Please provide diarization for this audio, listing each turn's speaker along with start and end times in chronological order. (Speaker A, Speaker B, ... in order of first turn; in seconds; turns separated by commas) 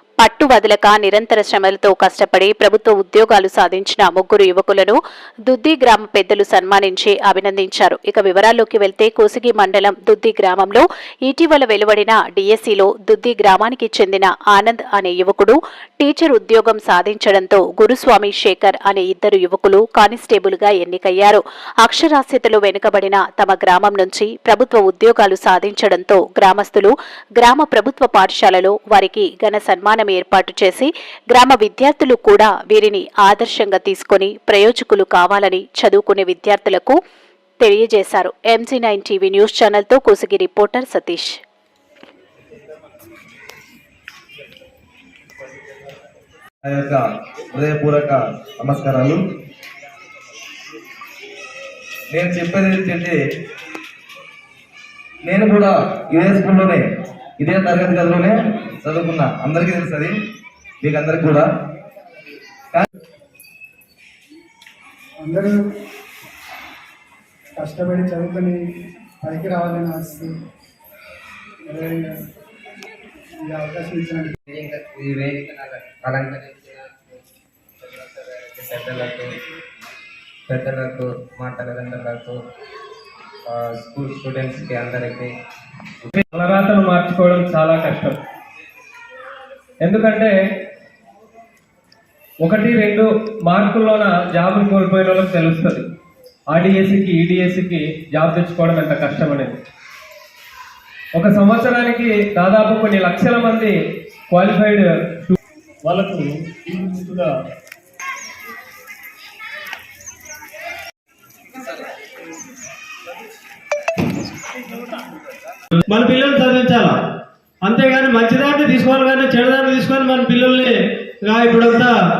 Speaker A: 0.2-37.0, Speaker A: 37.6-41.3, Speaker B: 46.6-49.2, Speaker B: 52.1-53.2, Speaker B: 55.2-56.8, Speaker B: 57.4-60.1, Speaker B: 60.8-61.5, Speaker C: 65.2-65.6, Speaker C: 67.6-68.6, Speaker C: 69.2-70.3, Speaker C: 71.7-72.1, Speaker C: 73.5-74.4, Speaker D: 74.5-77.3, Speaker D: 77.8-79.4, Speaker D: 80.5-82.4, Speaker D: 83.5-85.3, Speaker E: 86.2-88.2, Speaker E: 89.8-90.3, Speaker E: 92.4-95.8, Speaker E: 96.5-99.6, Speaker E: 101.2-103.7, Speaker E: 104.3-105.3, Speaker F: 115.8-117.0, Speaker F: 117.6-121.9